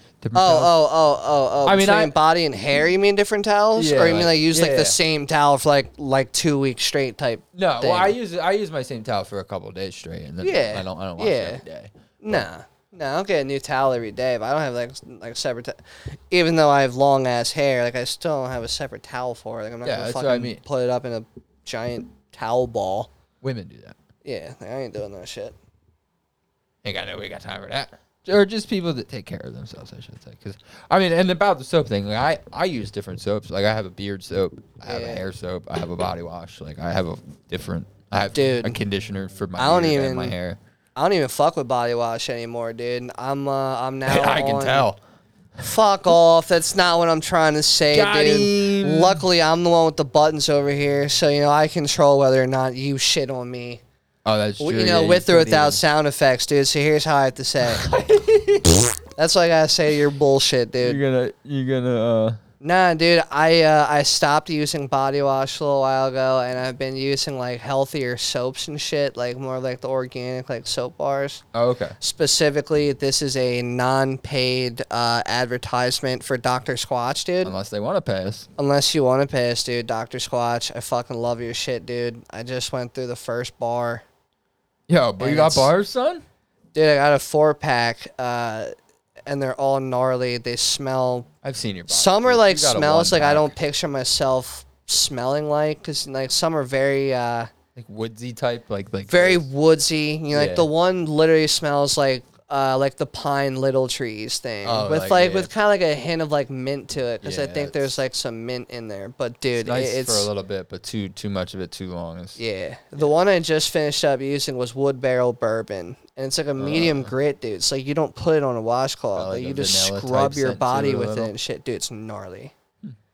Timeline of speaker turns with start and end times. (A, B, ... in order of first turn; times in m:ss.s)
0:00.2-0:00.7 A
0:00.3-0:08.2 B
0:01.6-0:02.2 A
0:03.8-0:05.0 A
0:07.5-0:12.4 A
0:10.4-0:11.6 B
0:12.2-0:23.1 B
0:19.8-0:20.6 A
0:23.4-0:24.0 A
0:24.2-0:25.5 B
0:26.8-0:40.6 A
0:34.8-0:35.2 B
0:38.3-0:38.8 B
0:39.6-0:40.3 B
0:41.0-0:44.8 B
0:44.1-0:45.0 A
0:45.6-0:53.8 B
0:47.9-0:49.2 A
0:54.2-0:55.8 A
0:54.6-0:57.8 B
0:57.7-0:58.9 A
0:59.2-1:01.0 B
1:00.8-1:02.4 A
1:02.6-1:11.4 B
1:11.5-1:12.0 A
1:12.0-1:17.5 B
1:17.4-1:18.5 A
1:18.6-1:24.0 B
1:24.9-1:26.2 A
1:25.2-1:25.7 B
1:26.7-1:28.7 B
1:29.2-1:31.3 B
1:31.4-1:33.5 A
1:31.9-1:37.5 B
1:37.8-1:39.5 A
1:39.1-1:50.3 B
1:40.3-1:40.7 A
1:44.6-1:45.5 A
1:47.2-1:47.9 A
1:49.6-1:52.4 A
1:52.4-2:02.5 B
1:56.6-1:57.1 A
1:59.1-2:01.3 A